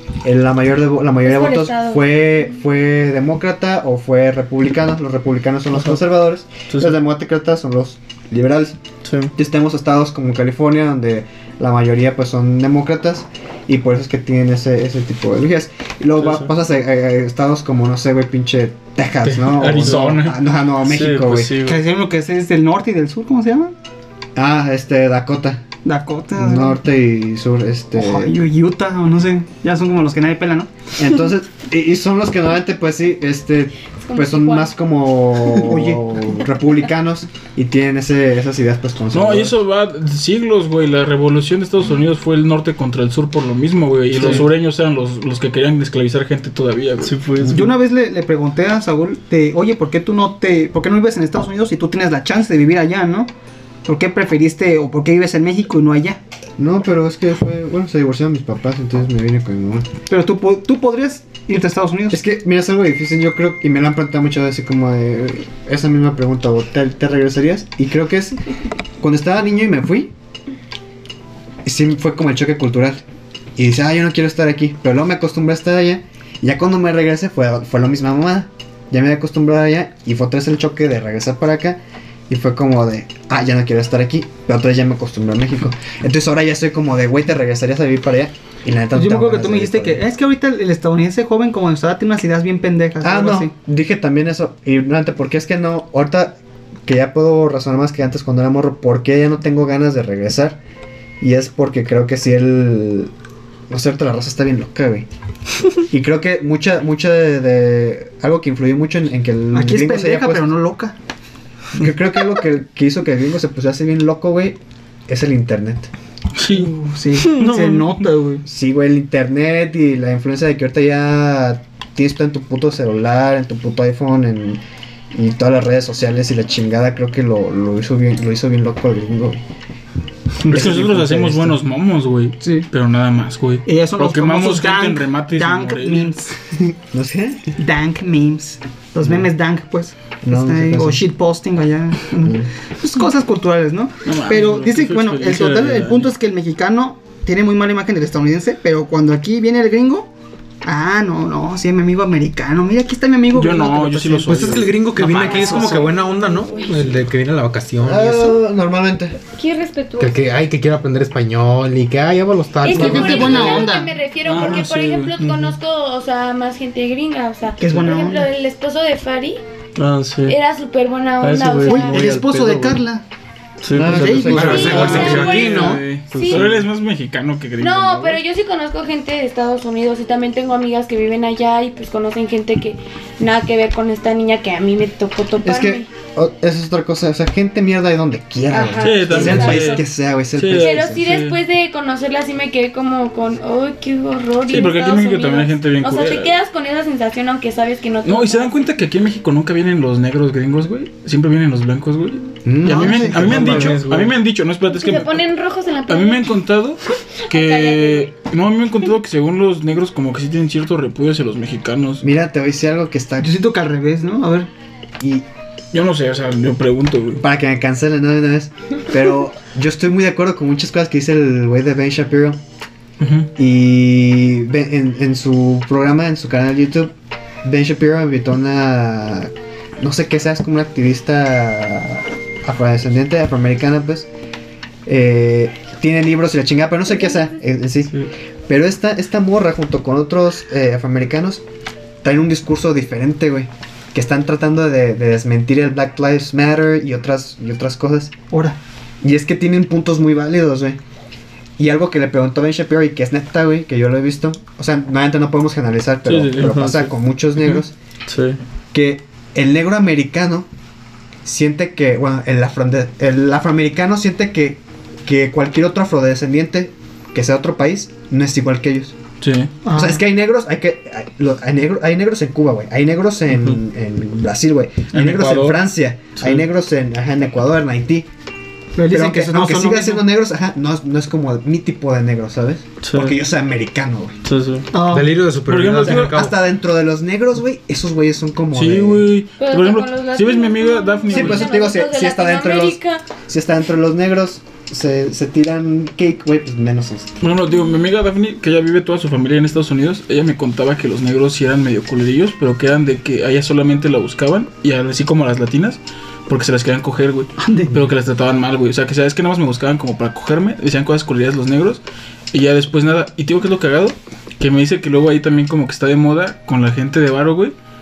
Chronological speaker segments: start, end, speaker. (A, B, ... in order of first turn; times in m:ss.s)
0:00.2-0:08.8 A
0:01.2-0:02.0 B
0:05.7-0:06.0 C
0:06.7-0:07.0 C
0:09.0-0:09.3 C
0:09.3-0:21.5 A
0:16.2-0:16.5 C
0:19.2-0:20.4 D
0:19.9-0:20.2 C
0:20.8-0:21.8 C
0:21.6-0:23.7 E
0:24.4-0:25.6 A
0:25.8-0:26.8 E
0:26.4-0:28.4 A
0:27.9-0:30.7 E
0:31.0-0:39.5 A
0:34.0-0:34.7 B
0:35.6-0:36.0 E
0:39.1-0:47.2 D
0:44.2-0:44.4 C
0:47.0-0:47.7 C
0:47.5-0:53.3 E
0:53.9-0:56.2 E
0:56.6-0:59.9 A
1:00.1-1:02.2 E
1:02.1-1:08.4 A
1:09.0-1:10.1 A
1:11.6-1:13.0 A
1:13.6-1:21.8 A
1:22.3-1:30.0 A
1:28.9-1:33.5 E
1:33.0-1:40.6 A
1:41.2-1:43.1 A
1:43.7-1:45.1 A
1:45.9-1:50.5 A
1:49.5-1:51.0 E
1:51.8-1:55.9 A
1:56.4-1:56.7 D
1:56.5-1:58.4 E
1:57.2-1:57.9 C
1:58.5-2:09.4 A
2:10.5-2:11.6 A
2:10.5-2:16.1 D
2:12.4-2:12.7 E
2:13.7-2:16.4 E
2:16.9-2:17.4 A
2:17.6-2:30.1 E
2:20.2-2:21.0 A
2:22.2-2:22.5 A
2:24.0-2:26.1 D
2:30.6-2:35.9 E
2:33.3-2:34.8 D
2:34.3-2:38.2 F
2:35.5-2:36.2 G
2:36.1-2:36.8 B
2:37.8-2:39.2 A
2:39.4-2:40.2 G
2:40.0-2:43.7 F
2:42.6-2:49.4 B
2:42.6-2:43.9 E
2:42.9-2:44.6 G
2:44.2-2:45.2 D
2:45.2-2:45.5 C
2:47.6-2:48.3 E
2:49.8-2:50.4 C
2:50.3-2:52.0 B
2:51.2-2:52.8 C
2:51.7-2:53.0 E
2:53.6-2:55.0 C
2:53.7-2:55.2 A
2:53.9-2:54.9 E
2:54.3-2:56.4 F
2:54.4-2:56.4 B
2:54.5-2:58.2 D
2:57.6-3:05.9 B
3:05.4-3:11.0 A
3:08.5-3:09.8 B
3:08.8-3:11.4 D
3:09.1-3:09.6 G
3:10.5-3:18.6 B
3:14.5-3:16.3 D
3:18.0-3:25.3 D
3:22.4-3:23.8 A
3:22.6-3:23.7 E
3:23.1-3:24.1 F
3:24.7-3:26.3 G
3:25.9-3:32.0 D
3:27.3-3:28.1 G
3:32.0-3:33.3 A
3:33.2-3:34.5 E
3:35.0-3:35.3 A
3:35.7-3:37.2 D
3:37.2-3:42.4 A
3:43.0-3:43.3 D
3:43.4-3:54.1 A
3:54.9-4:01.4 A
4:02.0-4:08.2 A
4:08.3-4:08.6 E
4:09.0-4:10.8 A
4:11.6-4:17.8 A
4:16.1-4:18.4 C
4:18.7-4:20.5 A
4:21.2-4:29.0 A
4:29.2-4:29.5 D
4:29.6-4:30.0 E
4:29.7-4:38.1 A
4:34.9-4:35.6 D
4:38.8-4:40.1 E
4:38.9-4:44.2 A
4:42.8-4:43.2 C
4:44.2-4:44.7 C
4:44.7-4:45.3 E
4:44.8-4:46.4 F
4:45.5-4:46.1 D
4:45.8-4:49.1 A
4:48.5-4:51.6 D
4:49.4-4:53.0 B
4:49.5-4:51.8 G
4:51.1-4:57.1 A
4:57.2-5:11.8 D
5:07.4-5:07.7 E
5:12.3-5:17.5 D